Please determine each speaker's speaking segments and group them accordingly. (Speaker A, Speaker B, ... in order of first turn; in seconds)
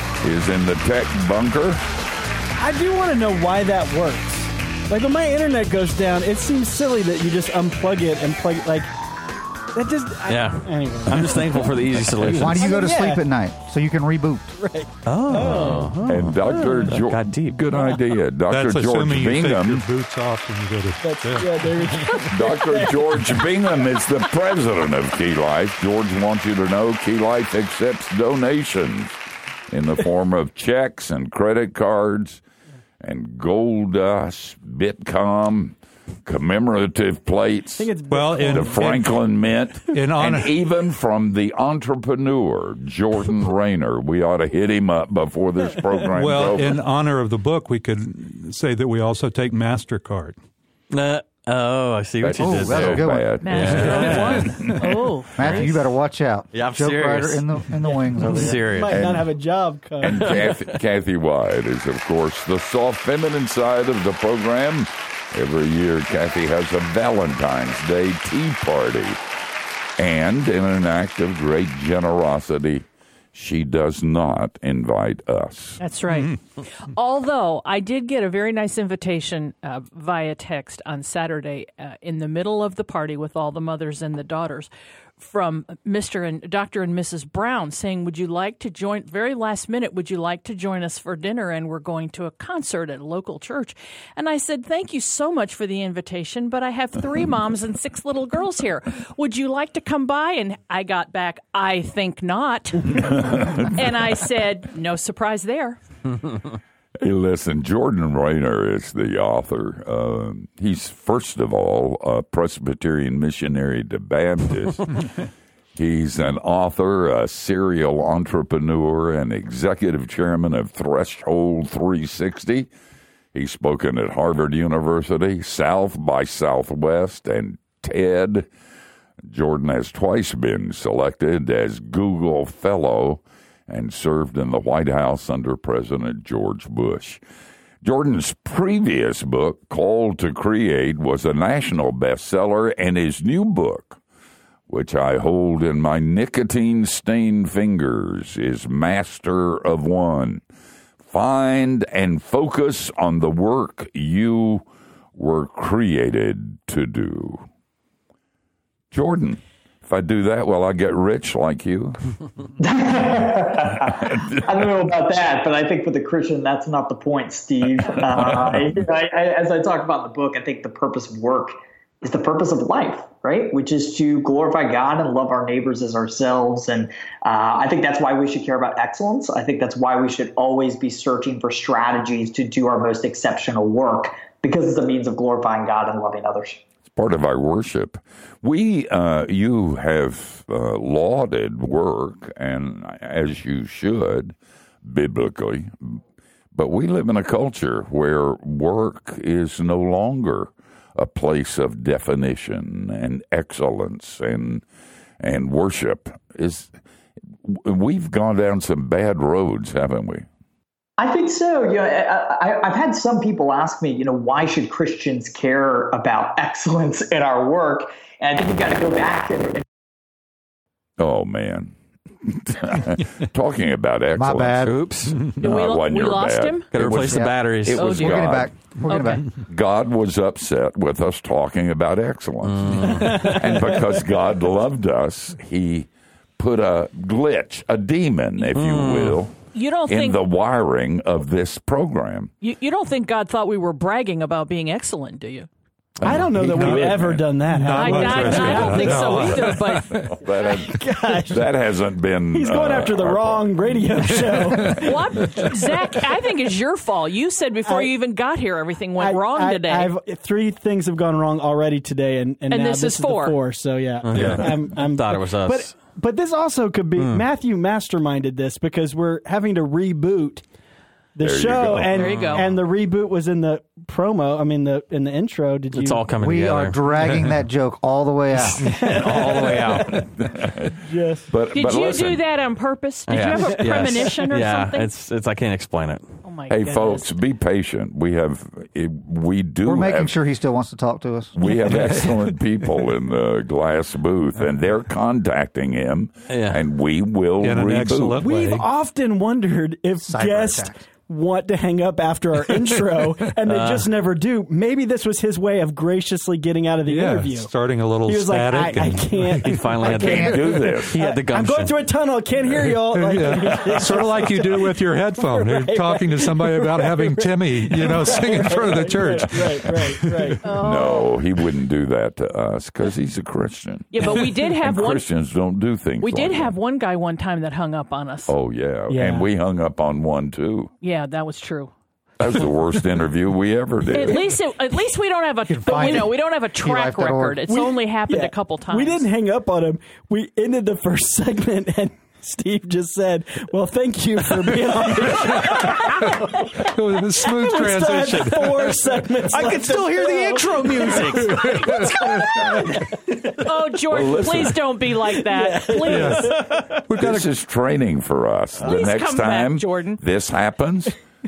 Speaker A: 0.2-1.8, 16.1-19.8, 22.3-29.2, 29.7-32.4, 33.0-37.9, 38.5-46.8, 52.2-54.9, 58.9-59.3, 60.0-69.2, 70.0-75.8, 102.9-103.8, 107.0-115.1, 115.7-122.7, 123.3-128.5, 129.2-137.2, 137.8-144.0, 144.7-150.4, 151.1-157.5, 158.9-162.0, 163.7-164.7, 167.9-168.8, 186.9-196.0, 196.5-204.6, 205.2-206.7, 207.4-210.2, 221.0-224.7, 225.2-228.5, 229.4-239.3, 239.9-242.3, 246.0-247.2, 249.9-253.6, 271.2-272.6, 279.1-280.8, 281.3-282.2, 286.5-290.2, 291.4-298.2, 310.0-310.9, 313.5-314.0, 320.6-326.5, 328.3-330.7, 332.2-334.3, 353.9-354.6, 357.0-360.9
Speaker B: 2.5-8.9, 9.7-11.8, 12.3-13.2, 14.5-16.9, 21.0-23.5, 37.8-39.0, 58.4-60.5, 246.0-249.4, 250.5-251.5, 252.3-255.5, 257.6-257.9, 259.0-270.4, 271.1-276.0, 278.6-280.1, 280.8-281.3, 283.3-284.1, 298.2-307.5, 308.0-320.5, 328.9-329.3, 337.5-353.4, 355.3-356.8
Speaker C: 10.2-12.7, 15.0-17.6, 50.9-54.4, 55.4-55.8, 56.5-59.0, 224.5-225.2, 226.7-228.1, 232.4-233.4, 238.5-239.2, 264.0-265.8, 266.9-267.2, 275.7-277.1, 278.3-280.0, 283.1-286.2, 296.3-296.6, 303.4-303.9, 309.4-311.9, 349.3-351.4
Speaker D: 12.2-14.5, 52.4-54.0, 55.3-58.7, 224.1-224.9, 226.9-229.3, 276.2-278.7, 289.6-291.4, 300.0-300.8, 309.8-310.5, 335.4-337.4
Speaker E: 18.5-22.3, 38.1-39.2, 39.9-40.5, 46.1-50.4, 54.5-54.8, 246.4-250.1, 254.3-254.8, 264.1-264.4, 291.7-292.1, 297.4-298.6, 306.9-309.7, 312.5-320.3, 346.7-349.0, 351.2-352.4, 355.9-357.3
Speaker F: 53.4-55.7, 75.8-105.8, 225.4-226.7, 227.8-229.3, 239.5-240.2, 242.4-245.5, 247.8-250.1, 254.7-259.9, 262.5-263.4, 271.9-272.4, 281.5-284.9, 286.2-287.1, 320.4-321.1, 323.9-325.1, 326.0-328.3, 330.8-331.7, 333.9-339.1, 351.4-352.6, 353.4-356.4, 358.6-360.0
Speaker G: 162.6-186.6, 211.0-219.6